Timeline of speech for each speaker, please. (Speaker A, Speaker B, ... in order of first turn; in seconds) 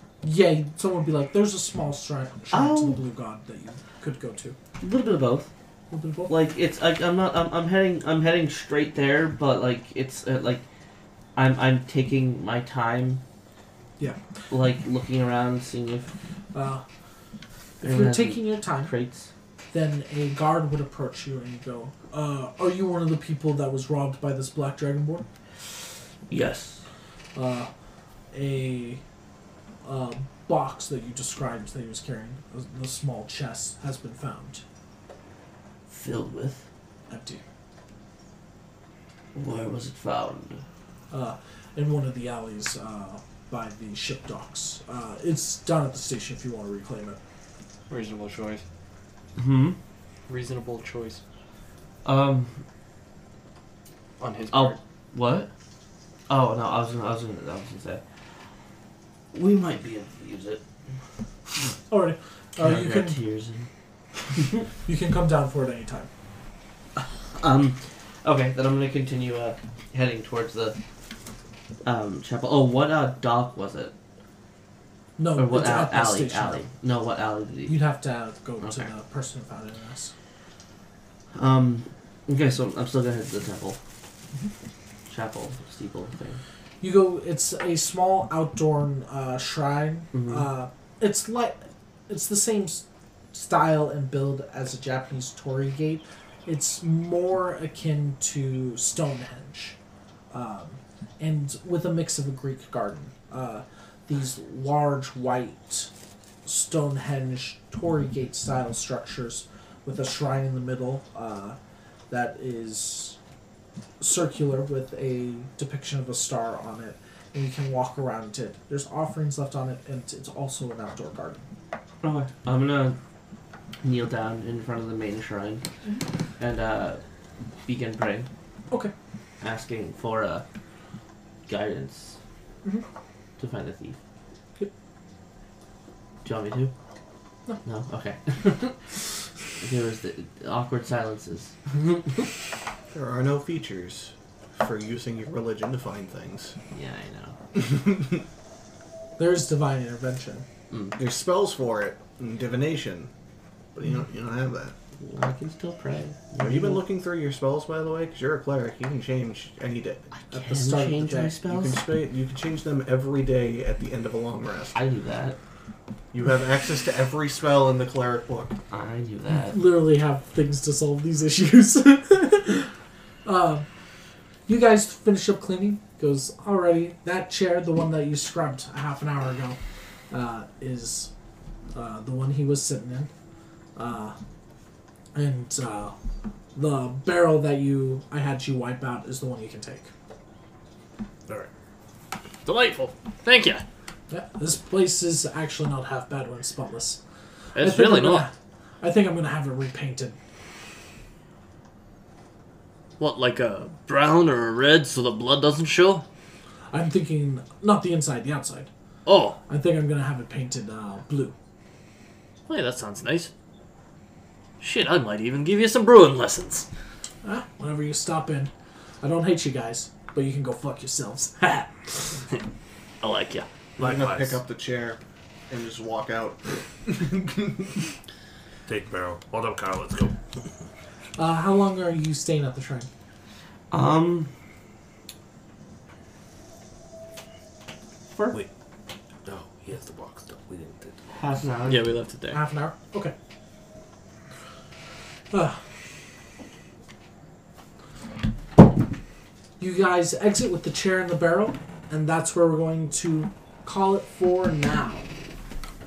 Speaker A: 0.2-4.6, 5.9-6.3, 16.5-16.8, 17.8-18.9, 19.7-25.3, 27.4-27.7, 28.3-29.0, 29.8-34.6, 37.1-37.4, 41.1-47.2, 61.9-63.2, 64.8-66.1, 75.2-76.6, 77.7-80.1, 86.8-99.8, 100.3-105.9, 106.5-111.6, 112.1-113.2, 114.0-121.5, 149.2-150.4, 160.3-161.4, 169.3-172.7, 173.2-173.7, 174.5-179.6, 180.1-181.1, 181.7-183.1, 183.8-184.2, 185.1-185.9, 186.6-189.9, 194.1-197.0, 197.6-200.2, 206.7-208.7, 209.5-211.3, 217.2-222.2, 231.2-232.9, 242.3-243.1, 245.3-245.6, 249.6-255.1
Speaker B: 2.5-3.0, 4.8-5.5, 6.3-10.6, 11.3-13.2, 14.5-16.1, 17.8-19.3, 26.3-26.8, 35.9-36.6, 39.4-40.6, 49.4-49.8, 52.0-52.6, 54.5-55.5, 56.3-58.0, 59.3-60.6, 62.6-63.7, 67.0-70.8, 71.8-73.9, 75.4-77.8, 78.6-78.9, 81.3-83.8, 85.1-86.4, 90.1-90.5, 122.0-123.0, 123.8-125.6, 126.4-127.0, 127.7-128.3, 129.4-130.4, 131.5-132.2, 133.4-134.0, 136.2-136.7, 137.6-138.8, 139.6-141.8, 146.7-147.4, 150.7-151.0, 155.0-156.8, 160.2-161.8, 164.8-165.4, 168.7-169.6, 233.7-234.3, 238.1-238.4, 241.1-241.9
Speaker C: 47.9-48.6, 50.3-51.2, 54.2-54.8, 192.4-193.6, 197.6-198.3, 203.0-206.1, 209.1-209.4, 212.5-213.3, 214.6-216.7, 223.0-223.5, 241.7-242.4
Speaker D: 142.9-146.6, 147.6-148.2, 151.0-153.1, 153.8-154.8, 156.4-160.1, 161.5-164.8, 166.1-168.6, 223.8-227.8
Speaker E: 223.8-224.4, 228.7-230.2, 239.2-241.0